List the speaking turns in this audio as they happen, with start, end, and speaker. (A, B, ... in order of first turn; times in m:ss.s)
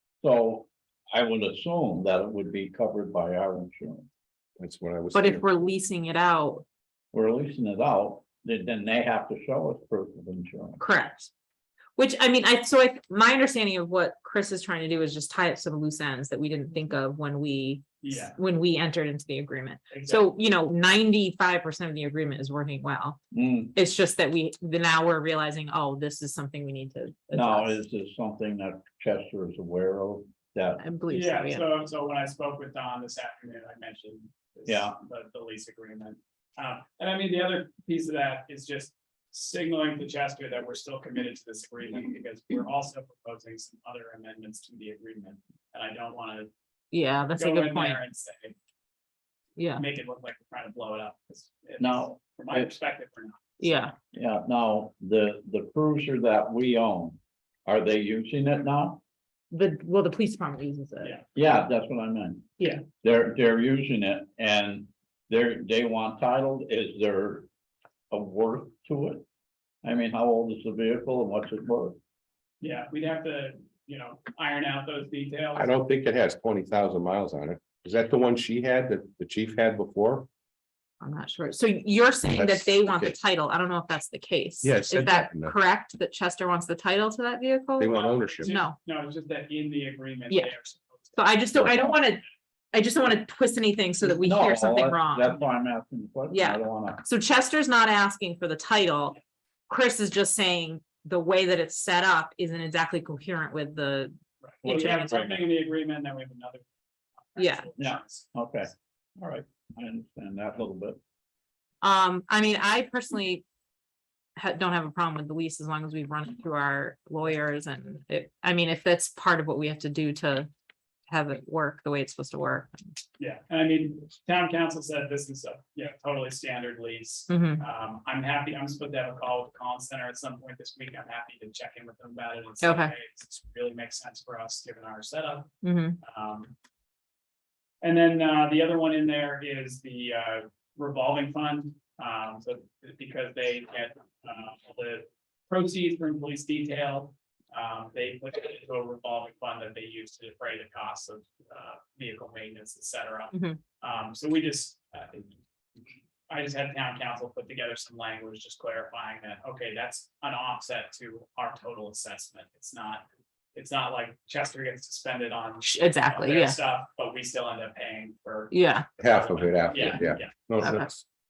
0:00.2-0:04.1 A
0:04.6-0:05.4 B
0:05.1-0:06.6 C
0:07.1-0:10.8 A
0:10.8-0:11.3 C
0:12.0-0:23.2 C
0:18.0-0:18.4 D
0:19.9-0:20.3 D
0:23.3-0:23.7 A
0:23.7-0:27.8 C
0:27.3-0:30.8 A
0:30.8-0:31.7 C
0:31.1-0:46.5 D
0:34.7-0:35.0 A
0:46.9-0:48.0 C
0:47.4-0:48.6 D
0:49.6-0:49.8 C
0:49.7-0:53.9 D
0:51.8-0:52.7 A
0:53.6-0:53.9 C
0:54.1-0:59.0 A
0:59.5-1:01.2 C
1:01.3-1:07.5 A
1:08.1-1:09.2 A
1:09.8-1:12.0 A
1:12.6-1:15.7 D
1:15.6-1:20.3 B
1:21.0-1:28.8 C
1:22.3-1:23.2 B
1:24.6-1:25.5 B
1:27.8-1:28.5 B
1:27.9-1:32.0 D
1:31.1-1:35.4 C
1:34.0-1:37.0 A
1:36.3-1:39.2 C
1:39.7-1:44.1 C
1:44.4-1:46.6 D
1:44.6-1:45.4 A
1:44.6-1:45.3 C
1:47.3-1:48.3 D
1:47.4-1:47.7 C
1:47.8-1:51.0 A
1:51.8-1:53.4 C
1:54.4-2:00.5 C
2:01.1-2:02.7 C
2:03.2-2:16.5 D
2:07.3-2:07.6 C
2:12.6-2:12.9 C
2:15.6-2:16.0 C
2:17.8-2:35.4 D
2:33.3-2:33.6 C
2:36.3-2:50.3 D
2:45.6-2:46.6 C
2:48.5-2:48.9 C
2:49.0-2:51.0 B
2:50.6-2:50.9 C